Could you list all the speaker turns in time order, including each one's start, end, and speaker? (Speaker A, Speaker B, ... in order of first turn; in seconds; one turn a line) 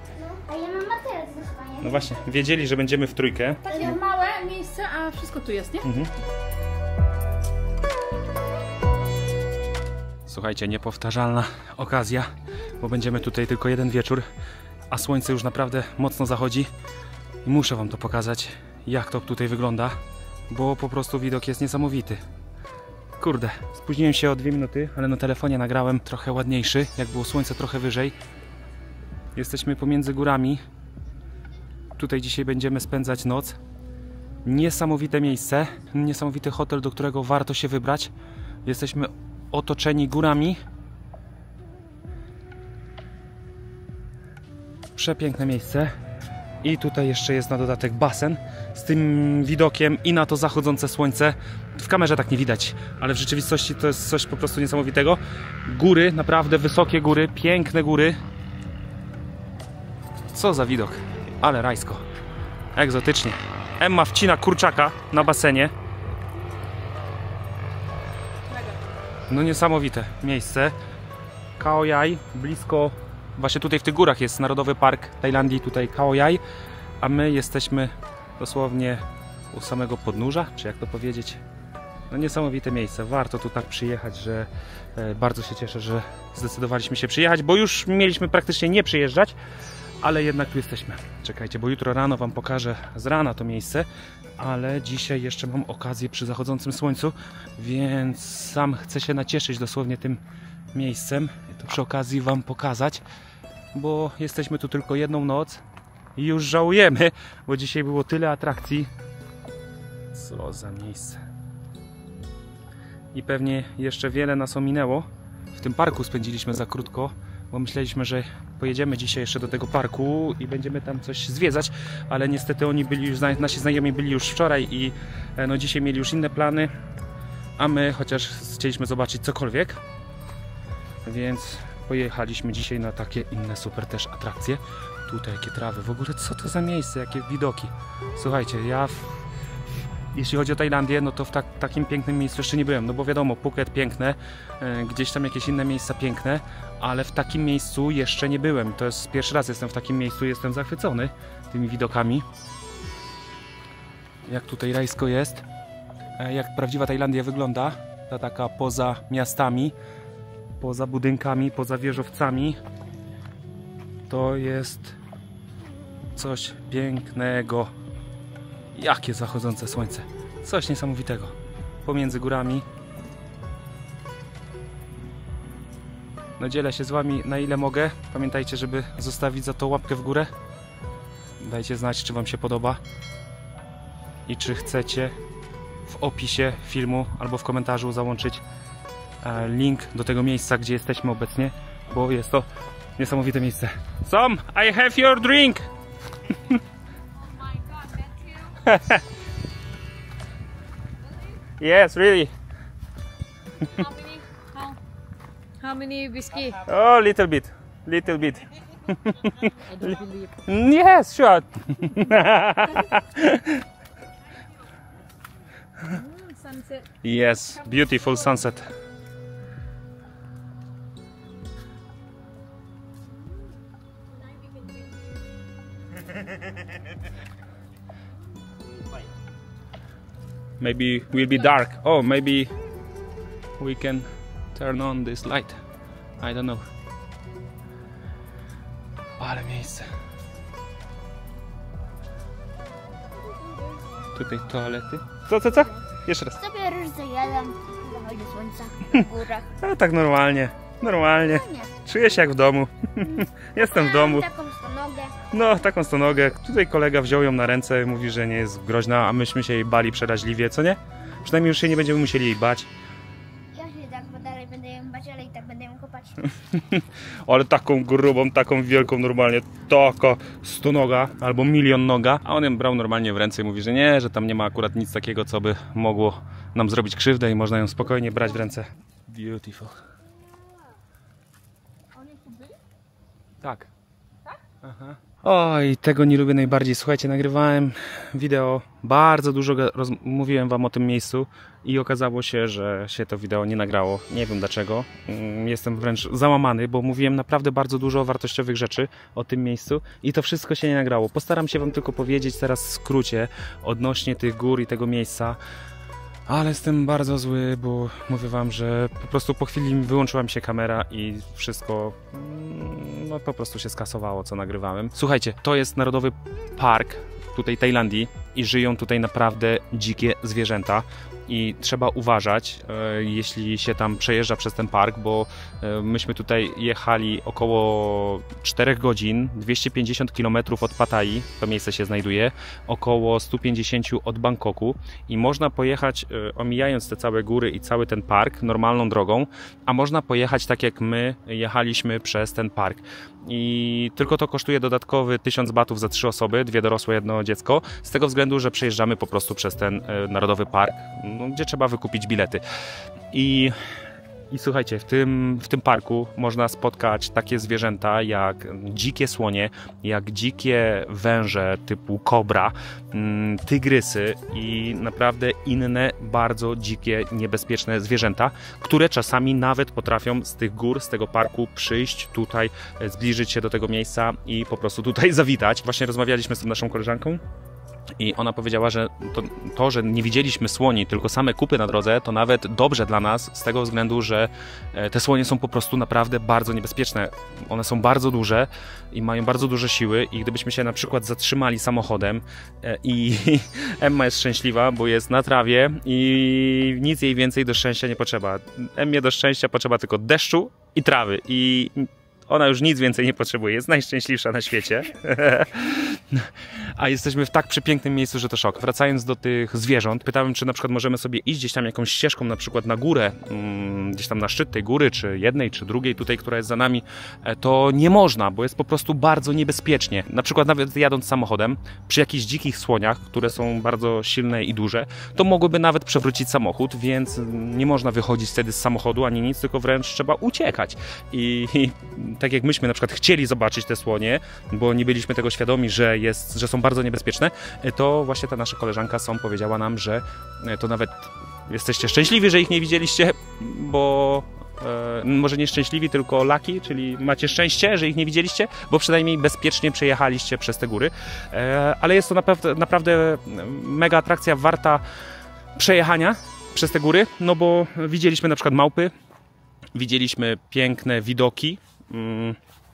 Speaker A: 0.1-2.2
Speaker B: 1.8-3.9
Speaker C: 3.6-5.8
Speaker A: 3.7-4.0
Speaker B: 5.8-6.1
Speaker B: 10.2-12.3
Speaker B: 12.8-14.2
Speaker B: 14.9-16.7
Speaker B: 17.4-20.0
Speaker B: 20.5-22.2
Speaker B: 23.2-28.1
Speaker B: 29.3-30.6
Speaker B: 32.0-33.6
Speaker B: 34.4-38.1
Speaker B: 38.6-40.6
Speaker B: 44.9-45.9
Speaker B: 46.6-58.1
Speaker B: 60.3-62.0
Speaker B: 62.7-65.7
Speaker B: 69.3-70.8
Speaker B: 71.6-76.4
Speaker B: 77.0-81.4
Speaker B: 82.1-89.4
Speaker B: 90.0-93.9
Speaker B: 94.4-100.2
Speaker B: 100.7-103.0
Speaker B: 103.7-105.6
Speaker B: 106.2-108.9
Speaker B: 110.1-111.2
Speaker B: 113.1-126.7
Speaker B: 127.6-129.8
Speaker B: 131.0-139.2
Speaker B: 140.1-152.2
Speaker B: 154.3-155.4
Speaker B: 156.2-159.7
Speaker B: 160.6-162.6
Speaker B: 164.1-165.0
Speaker B: 166.2-167.7
Speaker B: 168.7-172.7
Speaker B: 176.4-180.3
Speaker B: 181.4-182.8
Speaker B: 184.3-185.1
Speaker B: 185.9-188.4
Speaker B: 189.2-192.4
Speaker B: 193.0-195.7
Speaker C: 197.5-198.3
Speaker B: 198.6-199.0
Speaker B: 201.6-202.3
Speaker C: 203.8-204.8
Speaker C: 205.6-206.6
Speaker B: 206.6-213.6
Speaker C: 209.8-210.3
Speaker C: 215.9-216.8
Speaker B: 217.0-218.7
Speaker B: 230.6-232.5
Speaker B: 233.6-235.6
Speaker B: 236.2-236.6
Speaker B: 239.2-239.9
Speaker A: 243.2-244.2
Speaker B: 244.1-246.4
Speaker A: 245.4-249.5
Speaker B: 249.6-254.3
Speaker A: 251.2-251.7
Speaker A: 253.0-255.3
Speaker B: 255.3-262.7
Speaker A: 263.5-266.3
Speaker B: 266.4-279.8
Speaker C: 282.0-282.5
Speaker B: 283.4-283.7
Speaker B: 284.6-305.4
Speaker B: 306.3-352.4
Speaker B: 353.1-353.5
Speaker B: 354.3-377.2
Speaker B: 378.0-454.8
Speaker B: 455.6-458.9
Speaker B: 459.7-462.4